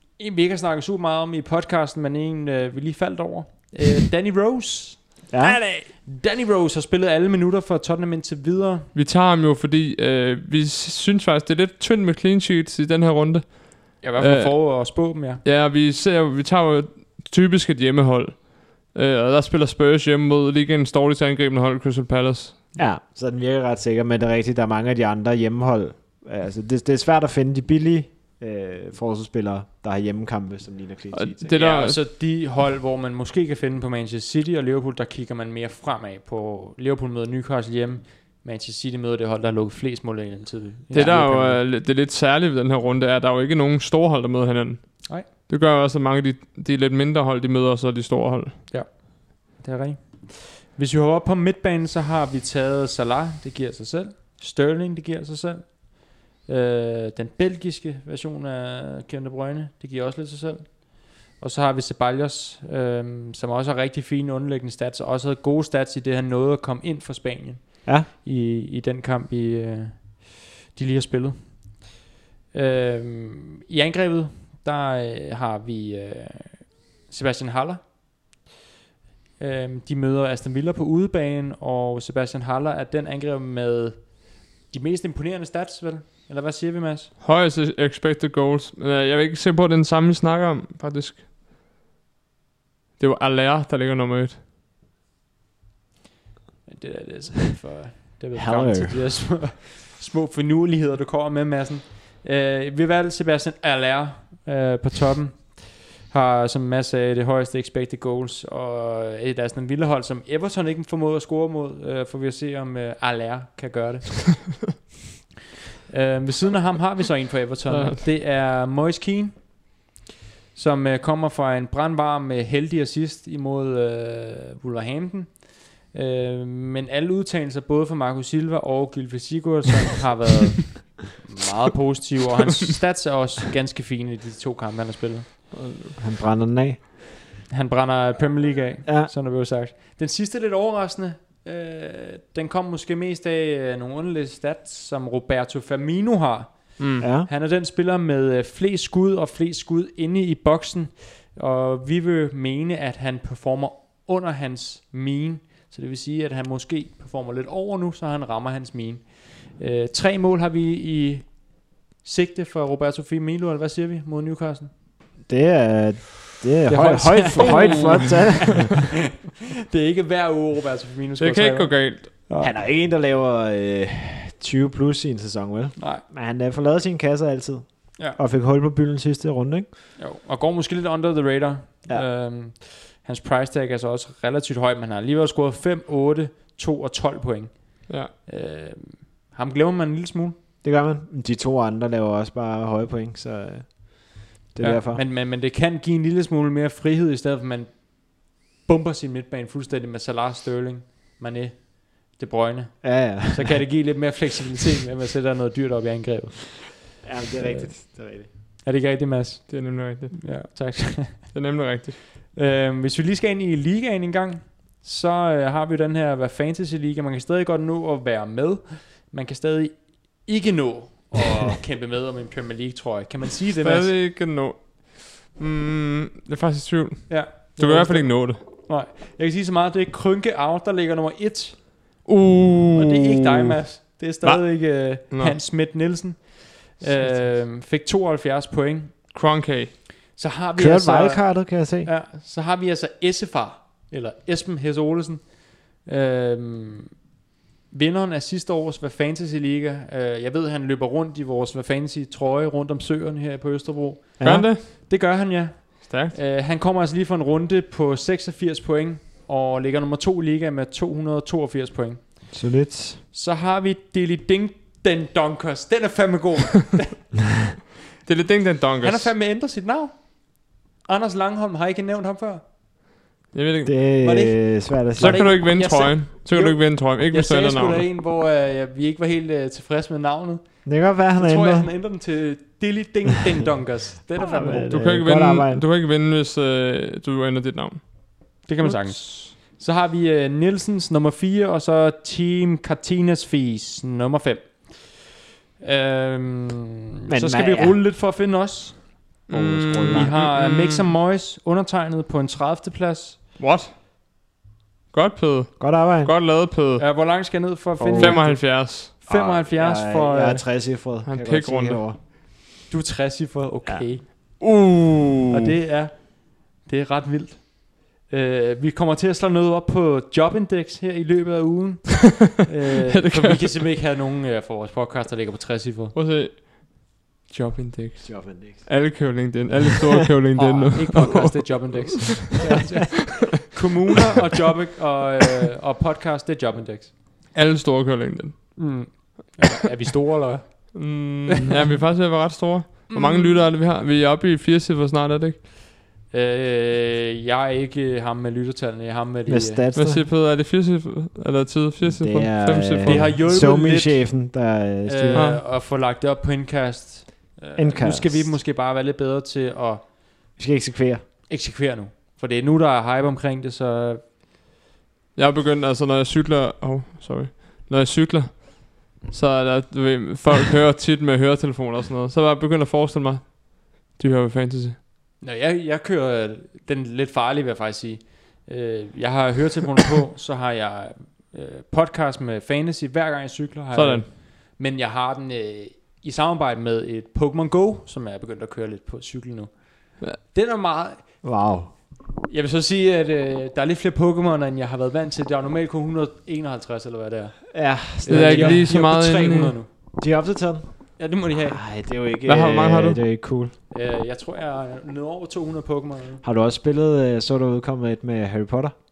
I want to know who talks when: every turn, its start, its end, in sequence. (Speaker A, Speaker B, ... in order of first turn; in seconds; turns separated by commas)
Speaker A: 0.1-8.9, Speaker B: 5.3-5.6, Speaker C: 8.9-22.6, Speaker A: 14.0-15.4, Speaker B: 22.8-31.6, Speaker C: 31.1-32.0, Speaker A: 31.5-41.6, Speaker C: 40.9-48.6, Speaker A: 48.7-71.9, Speaker A: 72.5-77.8, Speaker A: 79.4-87.1, Speaker C: 87.2-91.2, Speaker C: 93.0-94.4, Speaker A: 96.7-114.6, Speaker B: 98.3-99.0, Speaker A: 115.9-119.5, Speaker C: 117.7-118.0, Speaker A: 120.5-135.5, Speaker C: 135.5-136.0, Speaker B: 136.0-136.8, Speaker A: 137.5-164.7, Speaker B: 138.8-139.1, Speaker C: 146.8-147.1, Speaker B: 147.0-147.3, Speaker B: 165.2-168.8, Speaker A: 166.7-168.8, Speaker C: 167.4-168.4, Speaker A: 169.7-172.5, Speaker C: 171.2-172.1, Speaker B: 172.4-179.7, Speaker A: 175.8-176.0, Speaker A: 180.0-190.4, Speaker B: 190.6-195.0, Speaker A: 194.6-211.3, Speaker B: 202.8-203.6, Speaker B: 207.0-208.3, Speaker C: 209.5-212.0, Speaker A: 212.3-223.9, Speaker C: 223.6-228.4, Speaker A: 227.1-231.8, Speaker C: 232.0-233.5, Speaker A: 232.7-239.1, Speaker C: 234.2-235.4, Speaker C: 239.1-239.8, Speaker A: 240.1-247.0, Speaker B: 240.6-241.9, Speaker A: 247.7-262.4, Speaker B: 254.2-254.5, Speaker C: 254.2-254.9, Speaker C: 255.9-256.1, Speaker B: 262.3-263.0, Speaker A: 263.1-267.1, Speaker C: 268.0-269.1, Speaker A: 268.8-272.4, Speaker C: 273.3-273.8, Speaker B: 273.6-275.3, Speaker A: 274.0-284.8, Speaker C: 275.0-277.8, Speaker B: 280.6-281.7, Speaker B: 284.2-285.6, Speaker C: 284.7-289.3, Speaker A: 288.4-299.2, Speaker B: 297.1-297.8, Speaker C: 299.3-300.9, Speaker B: 299.3-300.1, Speaker A: 299.9-303.2, Speaker C: 303.4-303.7, Speaker C: 304.9-306.8, Speaker B: 305.6-306.1, Speaker A: 306.8-310.4, Speaker B: 307.8-308.5, Speaker C: 308.0-308.9, Speaker B: 309.1-312.0, Speaker C: 311.1-311.8, Speaker A: 312.7-314.4, Speaker C: 314.4-315.4, Speaker A: 315.3-325.9, Speaker C: 322.9-323.5, Speaker C: 325.9-333.3, Speaker B: 328.0-328.7, Speaker A: 330.4-337.0, Speaker B: 332.4-333.3, Speaker C: 337.3-339.0, Speaker A: 338.6-341.7, Speaker C: 340.7-345.4, Speaker A: 342.9-343.5, Speaker A: 346.1-349.6, Speaker B: 349.3-350.1, Speaker C: 349.7-353.1, Speaker B: 351.8-355.3, Speaker A: 352.8-354.3, Speaker A: 354.9-359.9, Speaker C: 355.1-355.4, Speaker B: 357.6-358.4, Speaker B: 360.4-361.0, Speaker A: 361.3-364.0, Speaker C: 365.1-374.8, Speaker A: 375.2-391.2, Speaker C: 383.7-384.1, Speaker B: 391.2-391.7, Speaker A: 392.2-400.0, Speaker B: 397.5-398.9, Speaker C: 398.1-399.6, Speaker B: 399.9-403.5, Speaker A: 401.0-401.6, Speaker C: 402.2-403.0, Speaker A: 403.7-406.2, Speaker B: 406.2-408.7